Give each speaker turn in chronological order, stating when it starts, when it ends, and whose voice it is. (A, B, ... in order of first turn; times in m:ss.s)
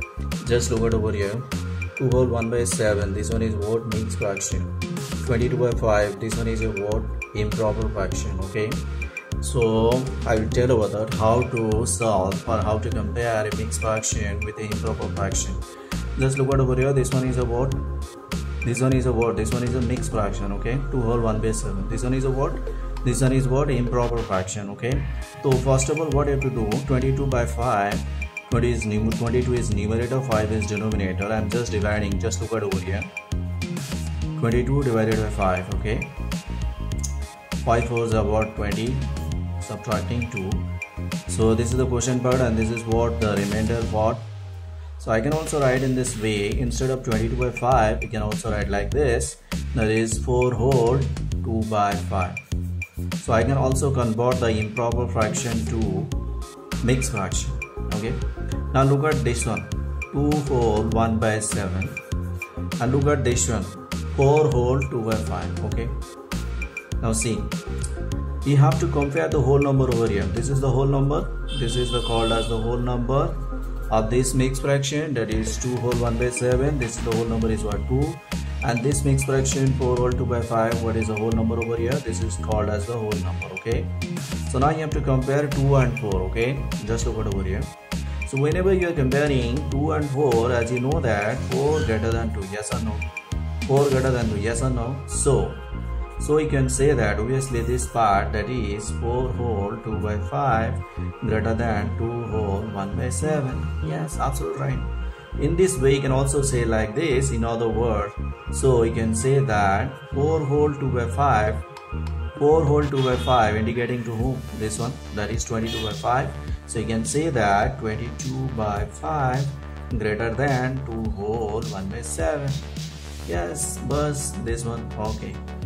0:00.4-0:08.8 A
0:09.4-0:15.6 A
0:16.2-0:17.9 A
0:18.6-0:33.1 A
0:34.4-0:36.2 A
0:37.6-0:40.7 A
0:41.3-0:44.3 A
0:45.0-0:52.4 A
0:53.2-0:56.2 A
0:56.8-1:02.0 A
1:02.8-1:06.0 A
1:07.0-1:07.6 A
1:08.4-1:13.4 A
1:13.9-1:23.9 A
1:24.5-1:27.7 A
1:28.3-1:33.1 A
1:33.7-1:35.6 A
1:36.2-1:51.7 A
1:52.4-2:02.7 A
2:03.3-2:05.4 A